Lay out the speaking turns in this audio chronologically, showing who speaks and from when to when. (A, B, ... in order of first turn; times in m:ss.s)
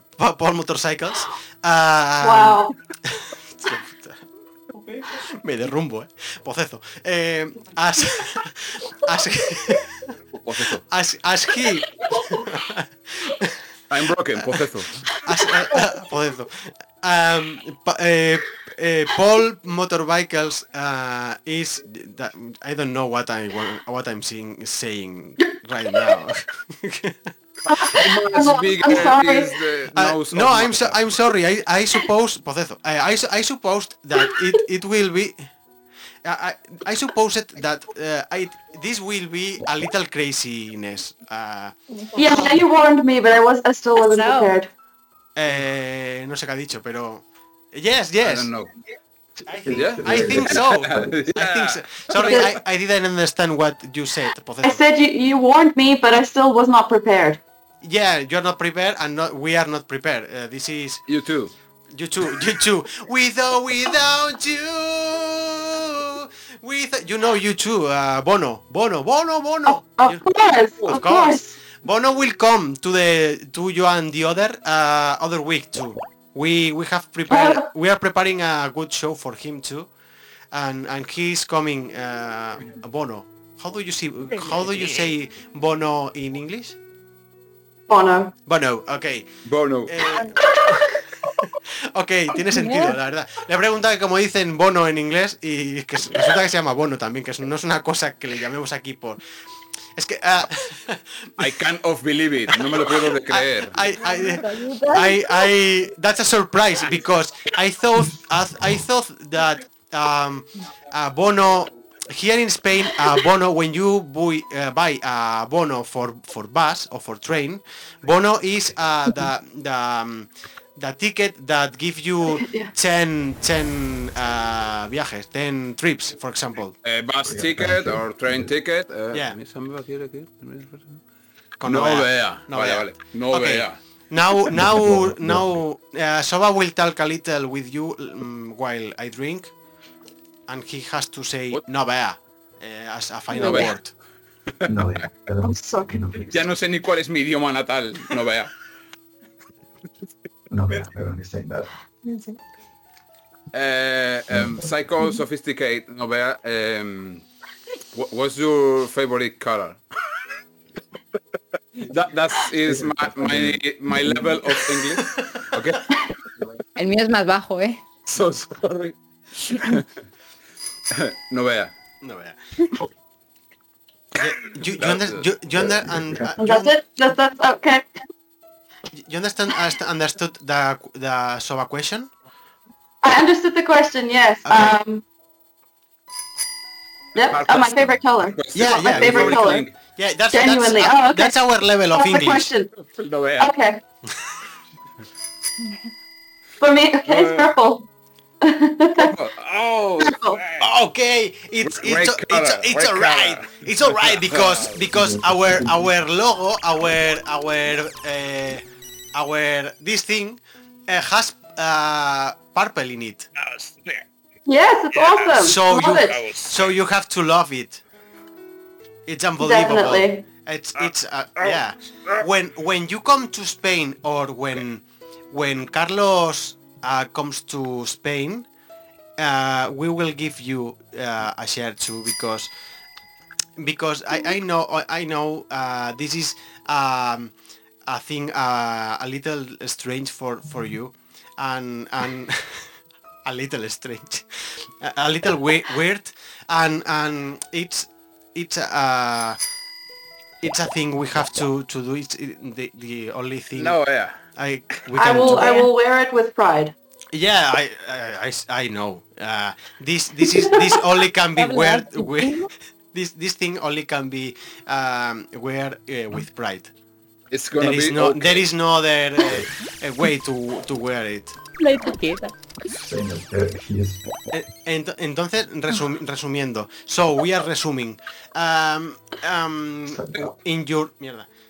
0:00.2-0:04.2 A
0:02.2-0:02.8 B
0:05.3-0:10.0 A
0:10.4-0:10.8 C
0:10.8-0:13.6 A
0:13.9-0:15.0 C
0:15.2-0:27.3 A
0:27.7-0:29.6 B
0:27.9-0:31.0 C
0:29.9-0:35.5 A
0:34.3-0:34.6 B
0:36.2-0:41.8 A
0:42.1-0:42.6 D
0:42.1-0:44.7 B
0:44.0-0:44.5 D
0:45.4-0:48.5 A
0:48.2-0:48.7 C
0:49.5-0:54.8 A
0:49.6-0:51.2 E
0:49.7-0:52.5 C
0:52.2-0:52.5 B
0:54.6-0:57.4 B
0:57.8-1:01.0 A
1:01.1-1:01.5 C
1:01.9-1:10.2 A
1:09.7-1:11.6 B
1:10.8-1:19.9 A
1:17.3-1:17.7 B
1:20.5-1:26.8 A
1:27.9-1:28.3 B
1:28.5-1:29.3 A
1:29.5-1:29.9 C
1:29.9-1:30.9 A
1:31.9-1:39.2 A
1:32.5-1:33.0 D
1:40.0-1:41.5 A
1:41.4-1:43.8 C
1:42.5-2:06.8 A
1:43.9-1:45.2 D
2:02.2-2:02.7 B
2:06.8-2:11.0 C
2:07.2-2:08.5 E
2:09.1-2:09.4 A
2:11.6-2:19.5 A
2:11.6-2:13.8 C
2:14.5-2:15.6 E
2:20.5-2:23.9 A
2:23.4-2:23.7 C
2:23.4-2:23.6 B
2:24.7-2:26.5 E
2:25.4-2:25.9 B
2:26.3-2:28.5 C
2:30.5-2:31.7 E
2:33.5-2:37.2 C
2:34.3-2:34.7 E
2:37.9-2:39.8 C
2:41.8-2:45.9 C
2:42.7-2:44.4 E
2:46.8-2:47.8 D
2:48.1-2:49.9 C
2:50.9-2:51.7 C
2:52.0-2:52.4 A
2:54.2-2:56.7 A
2:54.8-2:55.3 C
2:55.6-2:56.3 E
2:56.4-2:57.9 B
2:58.9-3:02.1 A
3:03.0-3:05.0 B
3:04.5-3:04.8 A
3:07.2-3:09.7 B
3:07.2-3:09.7 C
3:08.5-3:12.5 A
3:10.3-3:11.4 B
3:11.9-3:12.7 B
3:12.9-3:13.5 C
3:13.4-3:13.8 B
3:16.6-3:17.9 B
3:17.1-3:17.5 C
3:18.4-3:19.1 B
3:19.0-3:20.7 C
3:20.0-3:20.4 B
3:20.6-3:28.6 A
3:21.6-3:24.8 C
3:24.9-3:25.9 E
3:29.1-3:33.3 A
3:33.4-3:34.0 C
3:34.5-3:36.2 B
3:34.9-3:36.7 C
3:35.4-3:37.8 A
3:39.1-3:48.5 A
3:39.4-3:40.2 B
3:40.8-3:42.2 C
3:49.2-3:52.5 A
3:53.6-3:57.3 A
3:57.9-4:02.7 A
4:03.2-4:09.4 A
4:10.4-4:13.8 A
4:13.6-4:14.2 C
4:14.4-4:15.5 A
4:14.9-4:16.7 B
4:15.3-4:15.7 D
4:17.1-4:26.7 A
4:20.3-4:20.8 B
4:21.4-4:22.5 D
4:27.3-4:28.5 C
4:27.6-4:31.4 A
4:31.6-4:32.3 D
4:32.7-4:34.0 E
4:34.3-4:41.3 A
4:39.9-4:40.3 E